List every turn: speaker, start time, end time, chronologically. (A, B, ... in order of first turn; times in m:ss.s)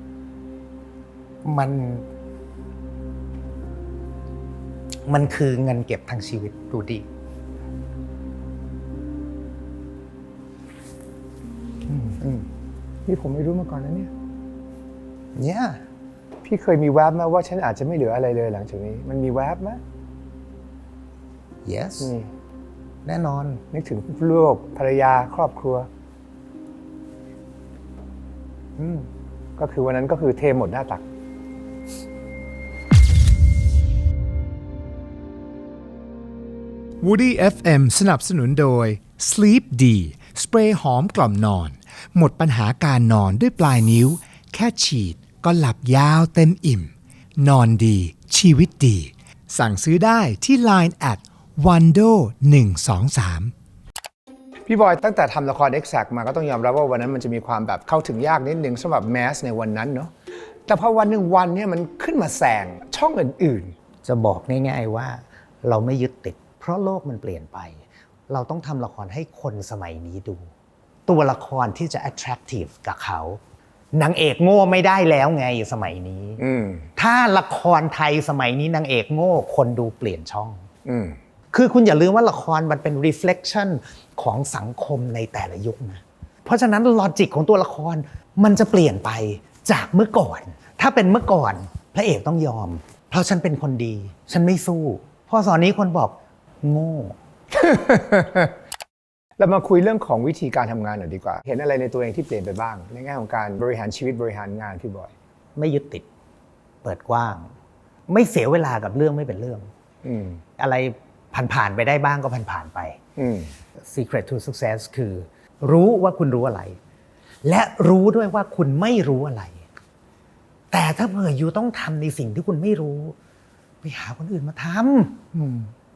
0:01.4-0:02.0 A
0:05.1-0:07.0 A
0:11.9-0:12.5 B
0:13.0-0:14.1 B
0:15.4-0:15.8 A
0:16.4-0:19.8 B
0:21.6-0:22.1 A
0:22.0-0:22.3 B
0:23.0-0:23.6 A
0:23.7-0:25.9 B
0:28.8-0:31.0 B
0:37.0-0:53.5 C
0:54.6-1:00.1 B
1:00.7-1:03.7 B
1:04.0-1:10.5 A
1:11.1-1:13.4 A
1:13.9-1:16.4 A
1:16.4-1:16.8 B
1:17.0-1:20.6 A
1:20.8-1:21.2 B
1:21.5-1:37.2 A
1:37.5-1:38.5 B
1:39.4-1:45.1 B
1:45.6-1:46.0 A
1:46.8-1:47.5 A
1:48.1-1:49.7 A
1:50.0-1:50.4 B
1:50.6-1:53.0 A
1:53.2-1:53.5 B
1:53.9-1:56.8 A
1:57.4-1:59.6 A
2:00.7-2:03.1 A
2:03.8-2:05.2 A
2:05.3-2:05.7 B